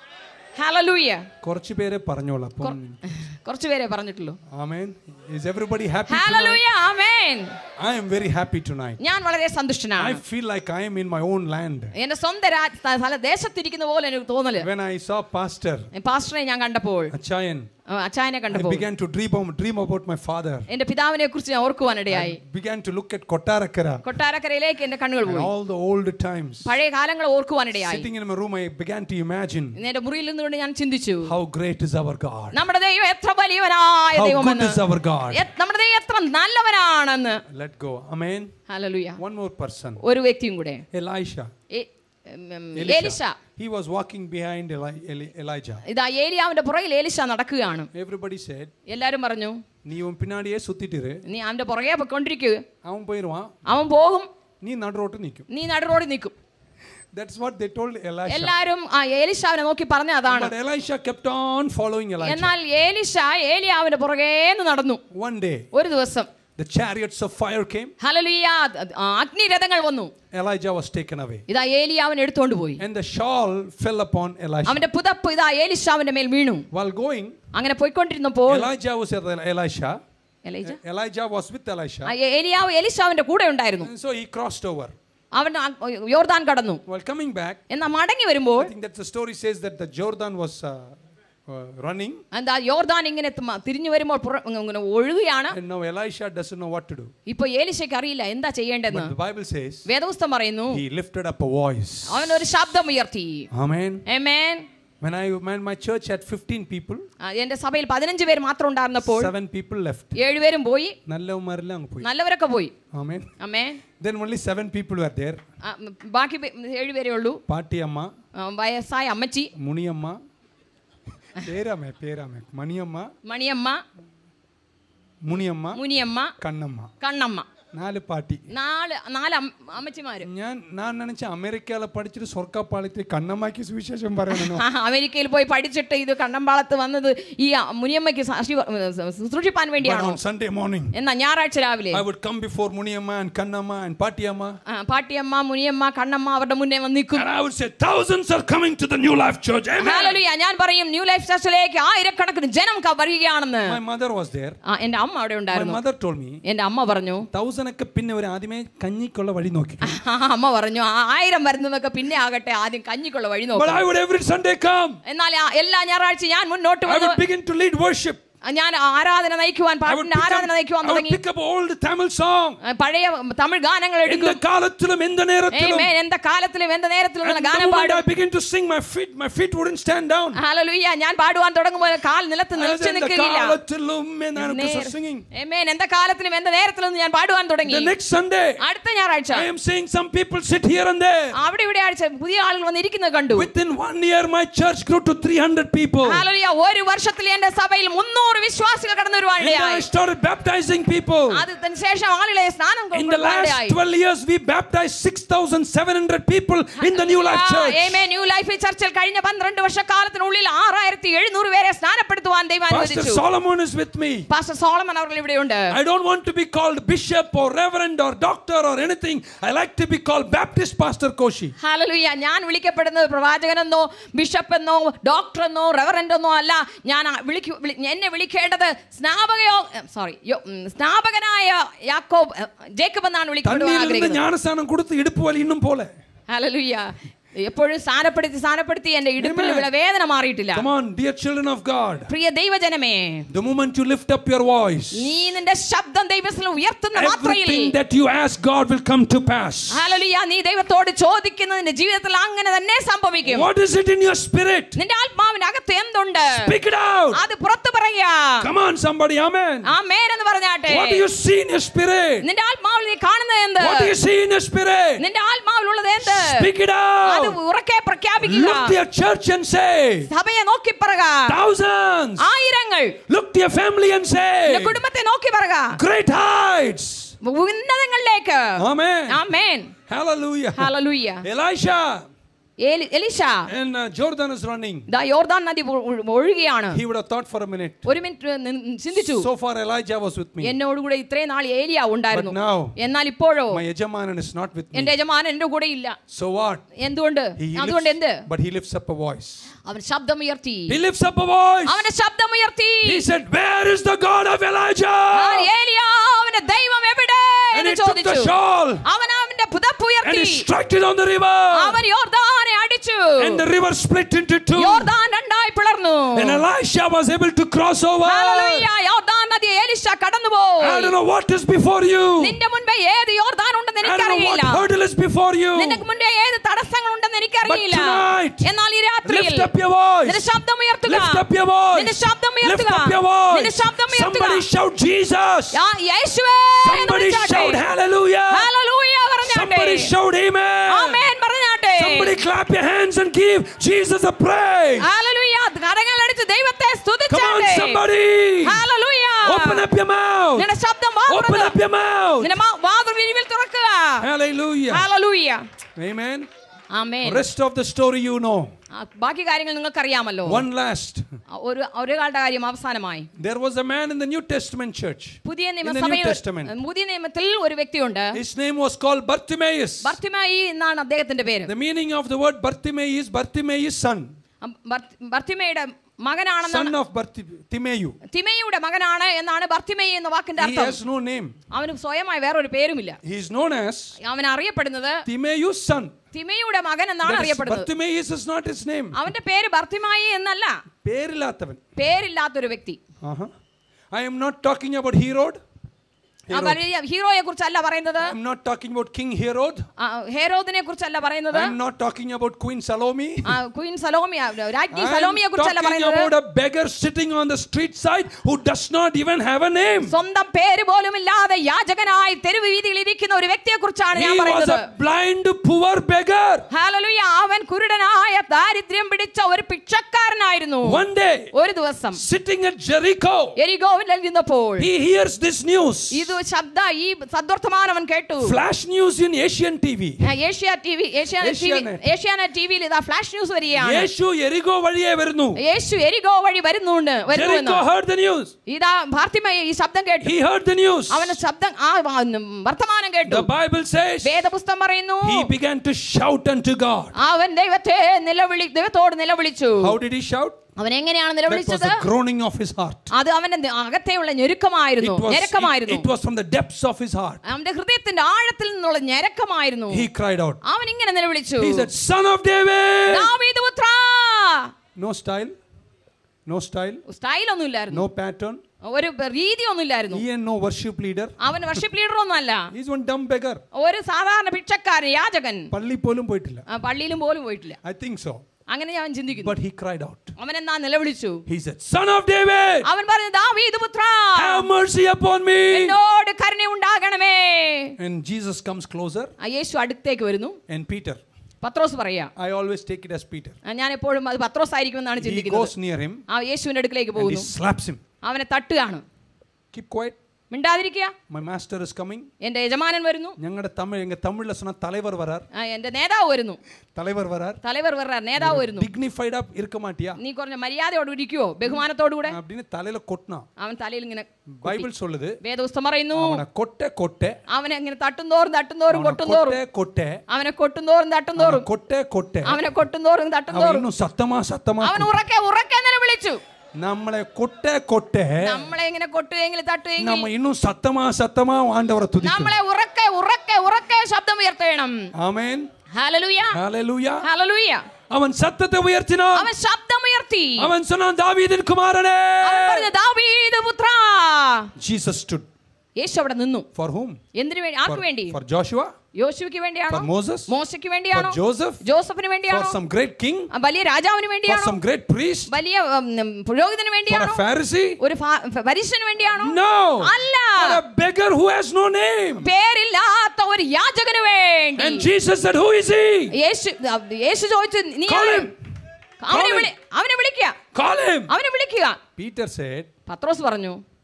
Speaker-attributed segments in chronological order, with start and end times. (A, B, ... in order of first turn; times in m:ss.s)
0:00.6-0:01.3 A
0:01.4-0:03.0 B
0:02.6-0:04.4 A
0:04.5-0:06.6 B
0:06.1-0:07.5 A
0:07.8-0:09.0 B
0:09.0-0:10.2 A
0:10.0-0:11.9 B
0:11.9-0:14.7 A
0:14.6-0:15.9 B
0:15.9-0:17.1 A
0:17.1-0:17.7 B
0:17.9-0:18.8 A
0:18.5-0:20.7 B
0:20.7-0:22.4 A
0:22.1-0:24.0 B
0:24.0-0:25.5 A
0:25.2-0:26.7 B
0:26.6-0:28.1 A
0:27.8-0:29.8 B
0:29.8-0:31.3 A
0:31.2-0:32.6 B
0:32.5-0:37.4 A
0:34.1-0:35.4 B
0:37.4-0:38.5 B
0:38.7-0:39.2 A
0:39.2-0:40.0 B
0:40.0-0:40.8 A
0:40.9-0:41.5 B
0:41.7-0:43.4 A
0:42.8-0:45.8 B
0:45.8-0:47.9 A
0:47.9-0:48.7 B
0:48.9-0:49.6 A
0:49.8-0:51.2 B
0:51.2-0:52.6 A
0:52.8-0:53.5 B
0:53.6-0:54.3 A
0:54.6-0:55.4 B
0:55.5-0:56.3 A
0:57.1-0:58.6 B
0:58.2-1:00.5 A
1:00.3-1:02.5 B
1:02.2-1:05.0 A
1:05.1-1:05.7 B
1:05.7-1:06.3 A
1:06.6-1:07.9 B
1:08.0-1:10.1 A
1:10.3-1:11.4 B
1:11.5-1:12.8 A
1:12.8-1:14.8 B
1:14.6-1:16.7 A
1:16.7-1:17.4 B
1:17.5-1:18.7 A
1:18.5-1:20.0 B
1:20.4-1:20.8 A
1:20.6-1:22.1 B
1:22.0-1:23.9 A
1:23.8-1:24.9 B
1:25.3-1:26.8 A
1:26.8-1:27.6 B
1:27.7-1:28.7 A
1:28.6-1:31.0 B
1:31.5-1:32.2 B
1:32.3-1:35.6 A
1:35.5-1:37.1 B
1:37.3-1:39.1 A
1:38.9-1:39.8 B
1:39.8-1:40.8 A
1:40.7-1:42.3 B
1:42.1-1:43.5 A
1:43.5-1:44.0 B
1:44.1-1:44.6 A
1:45.0-1:47.0 B
1:47.2-1:49.3 A
1:49.0-1:50.2 B
1:50.1-1:51.0 A
1:51.0-1:52.1 B
1:52.0-1:52.7 A
1:52.9-1:53.3 B
1:53.4-1:53.8 A
1:54.0-1:55.4 B
1:55.6-1:57.4 A
1:57.5-1:58.1 B
1:58.4-1:59.5 A
1:59.6-2:00.2 B
2:01.4-2:03.1 B
2:03.2-2:03.8 A
2:05.2-2:05.8 B
2:05.7-2:06.3 A
2:06.4-2:06.9 B
2:07.0-2:07.4 A
2:07.7-2:08.4 B
2:08.5-2:10.3 A
2:10.2-2:14.6 B
2:14.3-2:20.2 A
2:19.8-2:20.9 B
2:20.9-2:22.0 A
2:21.9-2:24.6 B
2:24.7-2:27.3 A
2:27.2-2:30.2 B
2:29.8-2:33.8 A
2:33.6-2:34.6 B
2:34.6-2:35.8 A
2:35.5-2:36.4 B
2:36.4-2:37.3 A
2:37.3-2:39.9 B
2:39.8-2:43.8 A
2:43.5-2:45.0 B
2:45.0-2:47.2 A
2:46.8-2:48.2 B
2:48.4-2:51.2 A
2:49.8-2:52.6 B
2:52.6-2:54.4 A
2:54.0-2:55.9 B
2:55.5-2:58.0 A
2:57.2-3:00.4 B
3:00.3-3:03.6 A
3:02.5-3:05.2 B
3:04.4-3:07.9 A
3:07.6-3:08.6 B
3:08.6-3:09.5 A
3:09.3-3:11.3 B
3:11.3-3:13.5 A
3:13.3-3:16.2 B
3:16.0-3:19.8 A
3:19.4-3:21.4 B
3:21.3-3:23.8 A
3:22.9-3:28.0 B
3:26.8-3:33.2 A
3:32.7-3:34.3 B
3:34.3-3:35.8 A
3:35.7-3:41.5 B
3:41.6-3:54.2 A
3:53.4-3:55.9 B
3:56.3-4:00.6 A
3:59.2-3:59.7 B
4:00.5-4:02.1 B
4:02.1-4:03.3 A
4:03.3-4:05.1 B
4:04.9-4:07.7 A
4:06.9-4:09.8 B
4:09.7-4:13.5 A
4:13.2-4:14.8 B
4:14.8-4:16.5 A
4:16.4-4:17.2 B
4:17.1-4:18.4 A
4:18.4-4:19.7 B
4:19.6-4:21.0 A
4:20.7-4:22.2 B
4:22.2-4:23.9 A
4:23.6-4:25.0 B
4:25.0-4:26.5 A
4:26.0-4:27.4 B
4:27.0-4:28.7 A
4:28.2-4:30.1 B
4:30.1-4:31.4 A
4:31.3-4:32.3 B
4:32.2-4:33.0 A
4:33.1-4:34.8 B
4:34.4-4:35.8 A
4:35.7-4:37.1 B
4:37.2-4:39.7 A
4:38.6-4:39.2 B
4:39.9-4:40.7 B
4:40.6-4:41.2 A
4:41.2-4:42.0 B
4:42.6-4:43.5 A
4:43.5-4:44.9 B
4:44.9-4:46.8 A
4:46.7-4:47.9 B
4:47.8-4:49.3 A
4:48.9-4:50.6 B
4:50.4-4:53.6 A
4:52.1-4:52.8 B
4:53.5-4:54.9 B
4:54.7-4:56.0 A
4:56.1-4:56.6 B
4:56.8-4:58.2 A
4:57.4-4:59.4 B
4:59.6-5:00.8 A
5:00.7-5:01.9 B
5:01.6-5:03.0 A
5:02.8-5:05.5 B
5:05.1-5:08.3 A
5:07.5-5:08.8 B
5:08.8-5:10.4 A
5:10.0-5:11.8 B
5:11.5-5:13.4 A
5:13.2-5:14.9 B
5:14.6-5:16.4 A
5:16.2-5:18.6 B
5:18.0-5:20.9 A
5:20.6-5:22.4 B
5:22.2-5:24.6 A
5:23.8-5:25.8 B
5:25.5-5:29.5 A
5:27.4-5:28.4 B
5:29.0-5:30.2 B
5:30.0-5:31.2 A
5:30.9-5:35.6 B
5:31.7-5:34.4 A
5:35.5-5:37.6 A
5:36.6-5:38.5 B
5:38.3-5:39.9 A
5:39.2-5:41.0 B
5:40.7-5:42.1 A
5:41.8-5:44.9 B
5:44.8-5:47.8 A
5:47.1-5:48.6 B
5:48.4-5:49.6 A
5:49.2-5:50.5 B
5:50.4-5:51.6 A
5:51.1-5:52.4 B
5:52.2-5:54.1 A
5:54.0-5:54.9 B
5:54.7-5:55.4 A
5:55.8-5:56.3 B
5:56.7-5:57.2 A
5:57.0-5:58.5 B
5:58.7-6:00.4 A
6:00.2-6:01.0 B
6:01.3-6:03.1 A
6:03.2-6:06.5 B
6:05.2-6:08.2 A
6:08.1-6:10.0 B
6:09.8-6:11.5 A
6:11.4-6:14.1 B
6:14.4-6:16.7 A
6:16.5-6:18.0 B
6:18.1-6:20.8 A
6:20.4-6:21.3 B
6:21.5-6:23.0 A
6:23.0-6:24.0 B
6:24.0-6:25.0 A
6:25.0-6:25.9 B
6:26.1-6:27.7 A
6:27.0-6:29.0 B
6:28.9-6:30.6 A
6:30.8-6:31.6 B
6:31.8-6:32.8 A
6:33.0-6:33.3 B
6:33.9-6:35.4 B
6:36.3-6:36.6 B
6:36.3-6:38.2 A
6:38.0-6:39.7 B
6:39.8-6:41.5 A
6:41.3-6:43.4 B
6:43.2-6:46.1 A
6:44.7-6:49.9 B
6:49.8-6:54.7 A
6:53.9-6:56.4 B
6:56.5-7:00.8 A
7:00.6-7:01.3 B
7:01.3-7:02.0 A
7:01.9-7:03.4 B
7:03.4-7:04.7 A
7:04.6-7:06.1 B
7:05.9-7:08.4 A
7:08.2-7:10.0 B
7:10.0-7:13.9 A
7:11.2-7:11.8 B
7:13.6-7:15.4 B
7:15.4-7:17.6 A
7:17.1-7:18.3 B
7:18.5-7:20.1 A
7:20.0-7:21.2 B
7:20.9-7:23.3 A
7:23.1-7:24.2 B
7:24.0-7:25.3 A
7:25.0-7:26.9 B
7:27.0-7:29.8 A
7:29.6-7:30.4 B
7:30.6-7:31.8 A
7:31.3-7:32.9 B
7:32.9-7:35.9 A
7:34.8-7:37.2 B
7:37.2-7:39.8 A
7:39.7-7:40.4 B
7:40.4-7:41.7 A
7:41.4-7:43.1 B
7:42.9-7:44.5 A
7:44.8-7:45.3 B
7:46.2-7:46.8 B
7:46.8-7:47.8 A
7:47.7-7:48.4 B
7:48.6-7:50.0 A
7:49.9-7:51.2 B
7:51.2-7:52.5 A
7:52.5-7:53.4 B
7:53.5-7:55.5 A
7:55.5-7:56.4 B
7:56.5-7:57.6 A
7:57.6-7:58.2 B
7:58.5-7:59.3 A
7:59.2-8:00.1 B
8:00.2-8:01.2 A
8:01.2-8:02.7 B
8:02.6-8:04.4 A
8:04.2-8:05.8 B
8:05.5-8:07.8 A
8:07.8-8:09.1 B
8:09.2-8:10.4 A
8:10.5-8:11.0 B
8:11.4-8:12.1 A
8:12.2-8:13.4 B
8:13.4-8:15.5 A
8:15.0-8:16.0 B
8:16.1-8:17.3 A
8:17.0-8:17.8 B
8:18.0-8:18.8 A
8:19.5-8:20.0 B
8:20.3-8:20.9 A
8:21.1-8:22.1 B
8:22.2-8:23.2 A
8:23.2-8:25.2 B
8:25.3-8:26.4 A
8:26.7-8:27.4 B
8:27.4-8:28.7 A
8:28.2-8:30.0 B
8:30.0-8:32.2 A
8:32.1-8:33.3 B
8:33.4-8:34.7 A
8:34.3-8:35.2 B
8:35.2-8:36.2 A
8:35.9-8:37.2 B
8:37.3-8:39.4 A
8:38.7-8:40.0 B
8:40.1-8:41.5 A
8:41.2-8:42.4 B
8:42.2-8:43.6 A
8:43.3-8:44.9 B
8:44.6-8:46.2 A
8:46.6-8:48.5 B
8:48.2-8:50.1 A
8:49.8-8:52.4 B
8:52.0-8:54.9 A
8:54.9-8:55.5 B
8:55.7-8:56.4 A
8:56.3-8:57.1 B
8:57.0-8:57.6 A
8:57.9-8:59.3 B
8:59.1-9:00.5 A
9:00.4-9:02.7 B
9:02.2-9:04.5 A
9:04.6-9:05.3 B
9:05.8-9:06.4 A
9:06.5-9:07.0 B
9:07.1-9:08.2 A
9:07.6-9:08.7 B
9:09.0-9:12.6 A
9:09.7-9:10.3 B
9:10.9-9:11.6 B
9:12.3-9:13.3 B
9:13.3-9:14.6 A
9:14.2-9:15.3 B
9:15.3-9:17.2 A
9:16.9-9:17.8 B
9:17.8-9:20.6 A
9:19.2-9:22.3 B
9:22.2-9:24.9 A
9:24.6-9:26.1 B
9:26.1-9:28.3 A
9:27.8-9:28.3 B
9:29.0-9:30.4 A
9:29.1-9:29.5 B
9:30.5-9:31.1 B
9:31.1-9:31.8 A
9:32.0-9:32.7 B
9:32.9-9:33.6 A